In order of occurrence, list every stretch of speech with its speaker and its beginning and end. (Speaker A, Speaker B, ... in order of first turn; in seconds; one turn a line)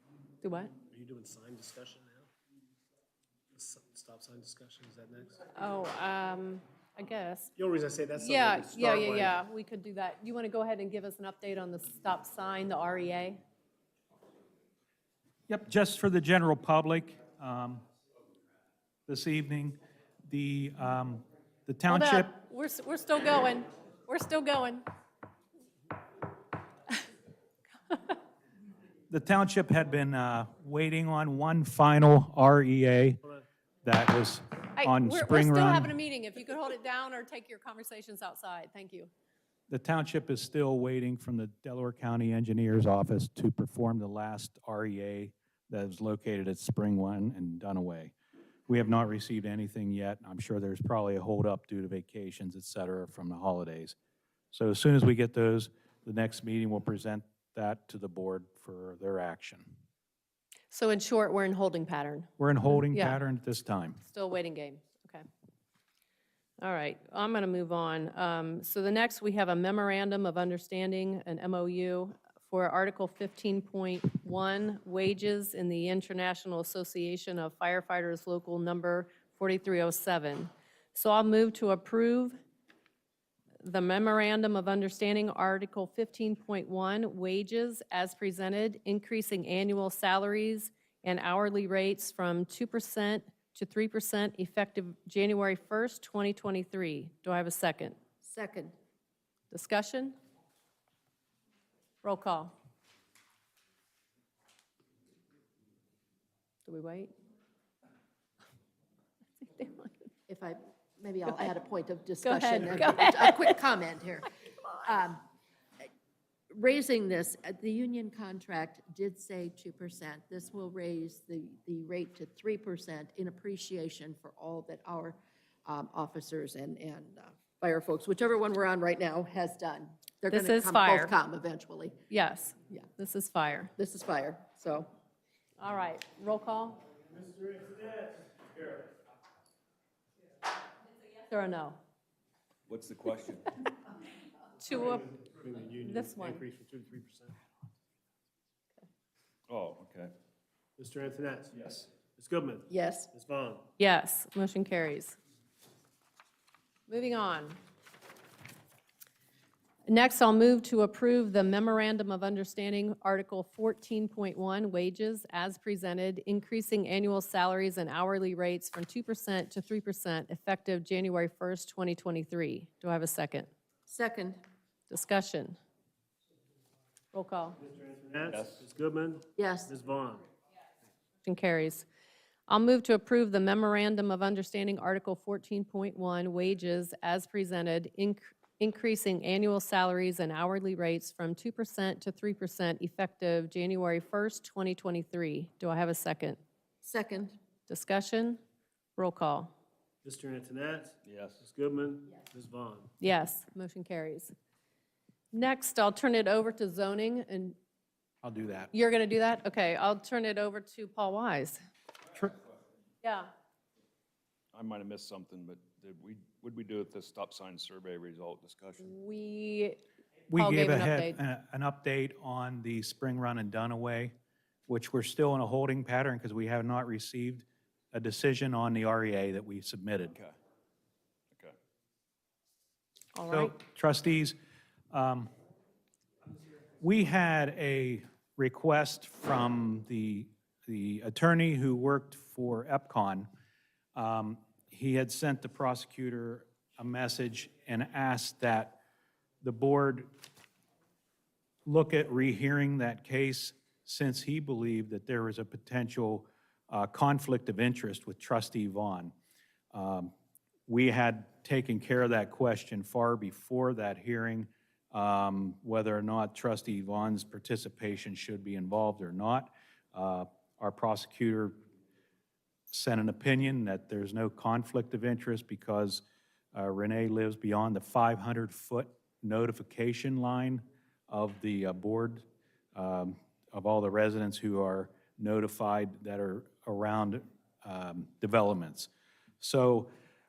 Speaker A: 0.4-0.7
Speaker B: 0.9-2.3
Speaker B: 3.5-5.4
Speaker A: 5.5-7.5
Speaker B: 7.6-9.3
Speaker A: 8.1-13.4
Speaker C: 15.5-17.8
Speaker C: 19.1-22.3
Speaker A: 21.9-24.9
Speaker C: 29.1-33.2
Speaker C: 33.8-35.9
Speaker A: 34.8-39.1
Speaker C: 39.7-48.1
Speaker C: 48.7-54.0
Speaker C: 54.5-59.7
Speaker A: 60.7-63.2
Speaker C: 62.4-64.0
Speaker A: 64.0-65.2
Speaker A: 66.6-82.4
Speaker A: 83.6-98.0
Speaker D: 98.2-98.7
Speaker A: 99.5-100.2
Speaker A: 102.0-102.5
Speaker A: 106.7-107.1
Speaker A: 109.4-110.0
Speaker D: 110.3-114.3
Speaker A: 112.2-113.6
Speaker D: 114.8-115.2
Speaker D: 116.5-132.0
Speaker A: 130.3-131.1
Speaker A: 132.1-133.7
Speaker D: 133.8-134.9
Speaker A: 135.6-136.8
Speaker B: 137.1-138.9
Speaker A: 141.3-141.8
Speaker E: 142.7-143.6
Speaker A: 144.6-145.2
Speaker B: 145.1-147.4
Speaker A: 145.8-146.4
Speaker E: 149.5-150.1
Speaker B: 150.8-153.7
Speaker D: 152.7-153.1
Speaker A: 153.8-155.2
Speaker A: 156.9-157.6
Speaker A: 159.9-173.5
Speaker D: 173.9-174.4
Speaker A: 174.9-175.6
Speaker A: 177.1-177.6
Speaker B: 177.6-180.2
Speaker E: 178.3-178.6
Speaker D: 179.4-179.7
Speaker A: 181.2-181.9
Speaker A: 182.5-196.4
Speaker D: 196.8-197.4
Speaker A: 197.7-198.4
Speaker A: 199.0-199.5
Speaker B: 200.0-202.9
Speaker E: 201.1-201.4
Speaker A: 203.0-204.3
Speaker A: 205.3-207.6
Speaker C: 208.2-208.7
Speaker A: 208.7-211.6
Speaker A: 213.0-213.3
Speaker E: 214.5-218.9
Speaker A: 218.8-219.8
Speaker C: 220.3-224.1
Speaker A: 220.3-221.2
Speaker C: 224.7-230.2
Speaker A: 233.2-233.5
Speaker C: 233.3-234.4
Speaker C: 234.9-235.3
Speaker C: 236.8-243.3
Speaker C: 243.9-248.8
Speaker C: 249.4-250.1
Speaker C: 251.7-259.1
Speaker C: 259.7-260.1
Speaker C: 260.7-271.6
Speaker C: 272.7-288.9
Speaker C: 289.4-289.9